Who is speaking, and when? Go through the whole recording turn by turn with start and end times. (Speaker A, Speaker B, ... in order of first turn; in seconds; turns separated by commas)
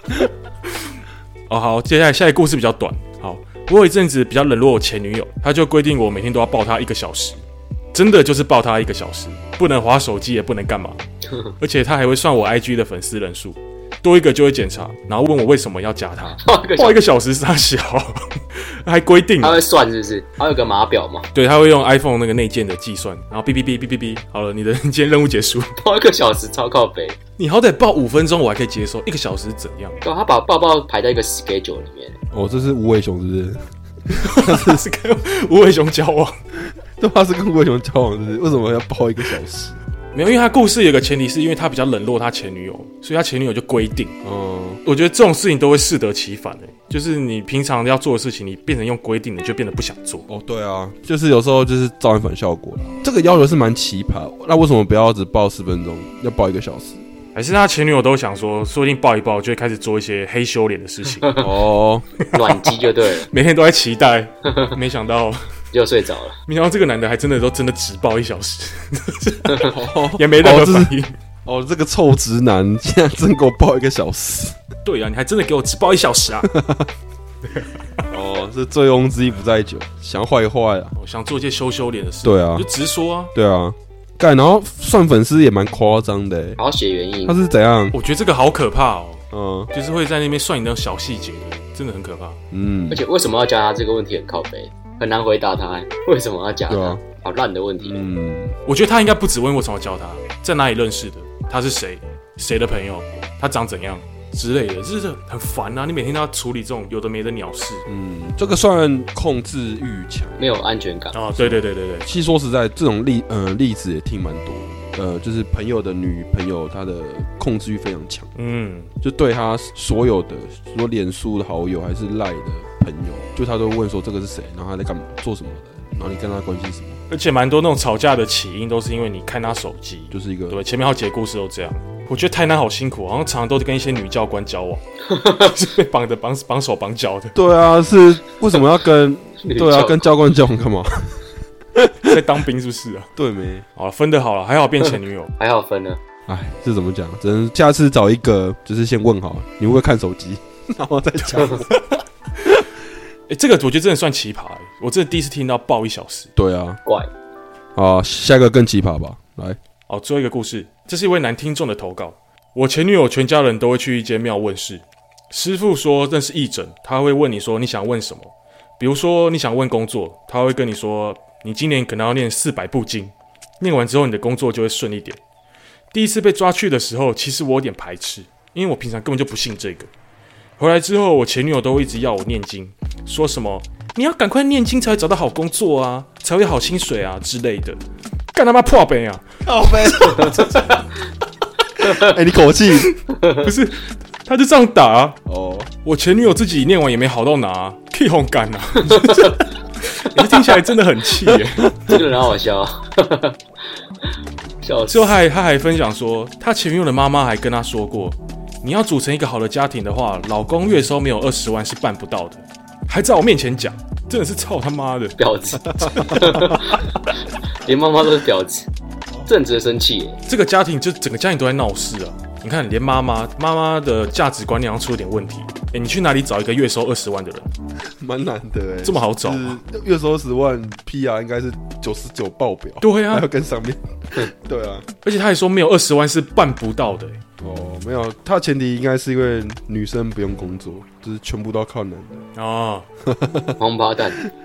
Speaker A: 1.5-7.4, Speaker A: 7.9-11.0, Speaker A: 11.6-19.6, Speaker B: 16.4-17.0, Speaker B: 19.4-21.3, Speaker A: 21.4-25.8, Speaker B: 25.8-27.2, Speaker A: 27.4-30.0, Speaker B: 30.0-32.2, Speaker C: 32.3-34.8, Speaker A: 34.1-36.4, Speaker C: 37.0-39.8, Speaker A: 40.1-44.1, Speaker C: 44.2-44.8, Speaker A: 44.9-50.2, Speaker C: 50.3-57.0, Speaker A: 57.4-61.5, Speaker C: 61.4-62.1, Speaker A: 62.2-65.4, Speaker B: 62.3-63.3, Speaker B: 64.5-64.8, Speaker B: 65.7-66.4, Speaker A: 66.5-71.1, Speaker C: 69.6-70.9, Speaker C: 71.5-74.6, Speaker A: 74.8-76.5, Speaker C: 76.4-76.9, Speaker C: 78.1-80.9, Speaker A: 81.0-83.3, Speaker C: 82.2-82.7, Speaker C: 83.3-86.6, Speaker B: 86.6-87.4, Speaker C: 87.3-88.0, Speaker A: 87.9-92.4, Speaker C: 89.3-89.7, Speaker C: 92.5-93.0, Speaker B: 92.9-98.0, Speaker C: 96.7-97.0, Speaker C: 97.8-98.6, Speaker A: 98.7-107.8, Speaker C: 107.9-110.4, Speaker B: 110.4-111.4, Speaker A: 111.1-112.1, Speaker C: 112.0-118.3, Speaker A: 118.4-118.9, Speaker C: 119.0-127.0, Speaker A: 127.1-137.4, Speaker C: 130.1-130.6, Speaker B: 135.1-135.5, Speaker C: 137.3-141.2, Speaker B: 139.4-140.1, Speaker C: 141.8-142.3, Speaker A: 142.1-143.1, Speaker C: 143.2-143.7, Speaker A: 143.8-145.3, Speaker B: 145.4-146.0, Speaker C: 146.3-152.6, Speaker A: 153.3-156.3, Speaker C: 156.4-156.8, Speaker C: 157.8-159.6, Speaker A: 159.9-175.2, Speaker A: 175.9-179.9, Speaker A: 180.6-187.8, Speaker A: 188.3-189.2, Speaker C: 189.4-190.5, Speaker A: 189.8-190.8, Speaker B: 190.1-190.5, Speaker C: 191.8-192.9, Speaker A: 192.8-195.2, Speaker B: 193.1-193.5, Speaker C: 195.3-195.7, Speaker A: 195.8-201.8, Speaker B: 199.0-199.3, Speaker B: 201.8-203.4, Speaker B: 204.6-205.2, Speaker A: 204.9-215.2, Speaker B: 215.2-217.1, Speaker C: 215.8-216.6, Speaker A: 215.8-216.5, Speaker B: 217.7-218.7, Speaker B: 219.3-220.2, Speaker A: 220.3-227.5, Speaker C: 228.0-234.9, Speaker A: 228.8-229.6, Speaker A: 232.8-233.3, Speaker A: 235.0-237.2, Speaker C: 237.4-242.2, Speaker A: 242.4-242.9, Speaker C: 243.1-243.6, Speaker B: 243.6-244.2